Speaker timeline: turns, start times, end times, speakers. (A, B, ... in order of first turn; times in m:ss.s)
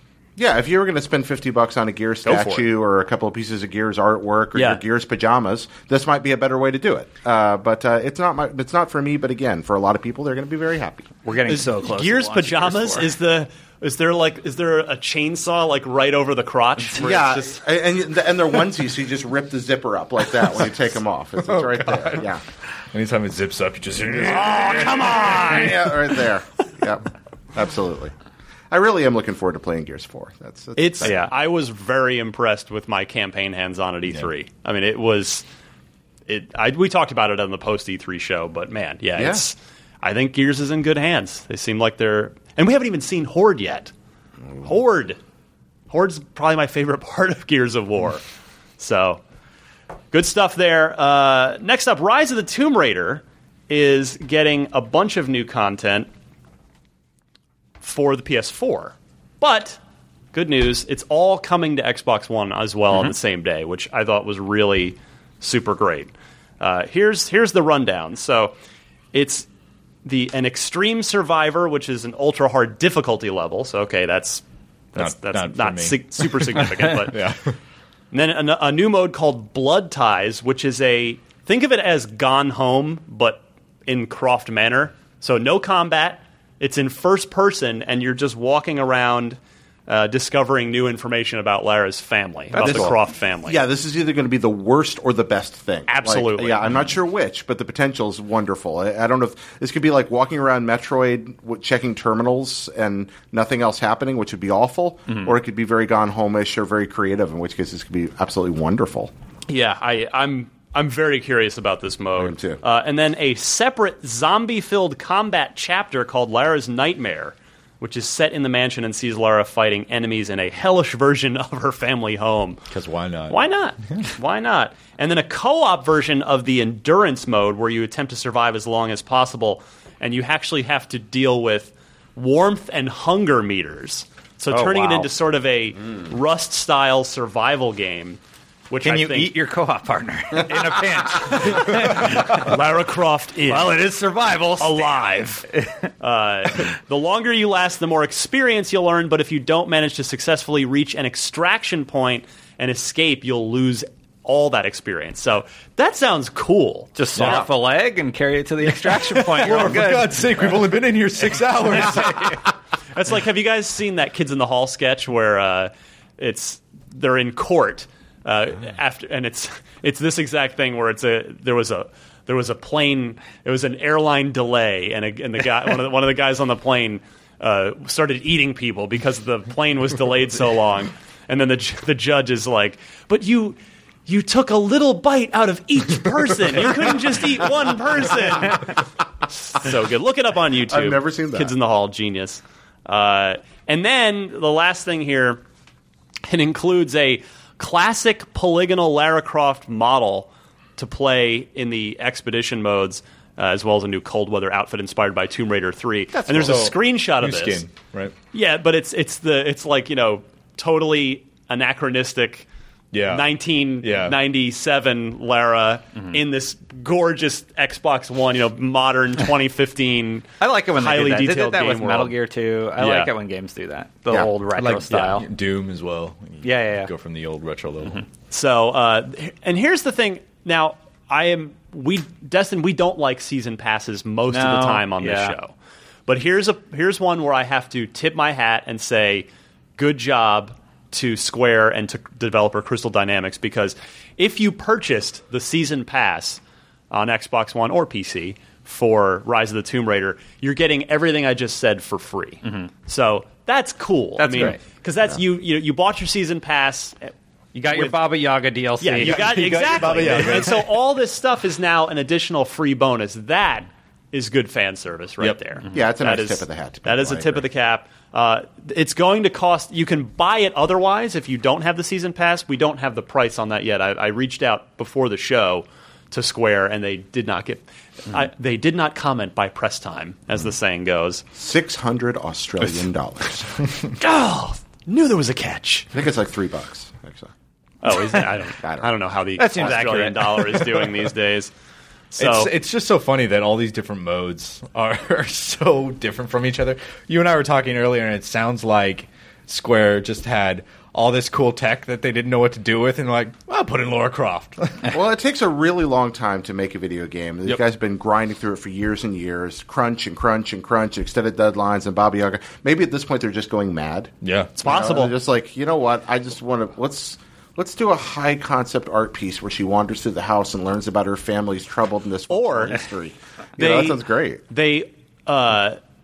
0:00.4-0:11.1 A
0:02.2-0:02.7 B
0:04.6-0:04.8 B
0:11.2-0:13.1 C
0:11.5-0:17.1 B
0:17.0-0:22.4 A
0:17.0-0:17.5 C
0:21.5-0:22.3 D
0:22.9-0:25.3 D
0:24.1-0:28.1 A
0:24.3-0:25.8 B
0:28.7-0:31.2 A
0:30.8-0:35.4 B
0:31.0-0:31.3 C
0:36.3-0:43.9 B
0:39.2-0:39.4 A
0:44.6-0:45.2 B
0:45.9-0:48.2 B
0:48.8-0:49.2 B
0:50.1-0:56.1 B
0:57.8-0:59.8 B
1:00.3-1:08.5 B
1:09.1-1:09.5 B
1:10.0-1:14.4 B
1:14.9-1:17.2 B
1:15.0-1:17.6 D
1:18.1-1:33.6 B
1:32.5-1:33.0 C
1:32.6-1:49.1 A
1:35.9-1:36.6 B
1:49.5-2:02.6 B
1:52.2-1:52.6 A
2:02.7-2:03.4 D
2:03.3-2:18.2 B
2:14.5-2:15.1 C
2:18.7-2:19.4 B
2:18.8-2:22.5 C
2:21.4-2:23.8 B
2:23.5-2:25.0 C
2:24.6-2:25.5 B
2:26.0-2:37.4 B
2:37.0-2:40.2 C
2:37.2-2:37.5 D
2:38.8-2:42.4 D
2:42.9-3:08.7 B
3:09.5-3:15.4 B
3:10.7-3:11.5 A
3:16.3-3:27.6 B
3:26.2-3:28.2 D
3:28.3-3:32.5 B
3:32.9-3:34.2 D
3:33.1-3:42.2 B
3:40.4-3:45.3 C
3:42.8-3:43.1 B
3:44.6-3:48.0 D
3:46.4-3:46.9 C
3:48.3-3:55.5 B
3:54.3-3:55.4 C
3:56.1-4:06.4 B
4:06.9-4:17.1 B
4:12.4-4:12.7 C
4:14.2-4:14.6 C
4:17.5-4:20.5 C
4:17.7-4:18.0 B
4:18.8-4:41.2 B
4:19.0-4:20.7 D
4:25.7-4:27.4 A
4:41.4-4:43.7 A
4:44.0-4:45.9 B
4:45.9-4:47.3 A
4:47.8-4:51.5 B
4:48.6-4:48.9 A
4:49.4-4:50.9 C
4:52.1-4:52.5 B
4:52.2-5:04.9 D
5:04.9-5:24.4 A
5:14.2-5:14.6 D
5:14.6-5:15.1 B
5:22.3-5:22.8 B
5:23.6-5:25.8 B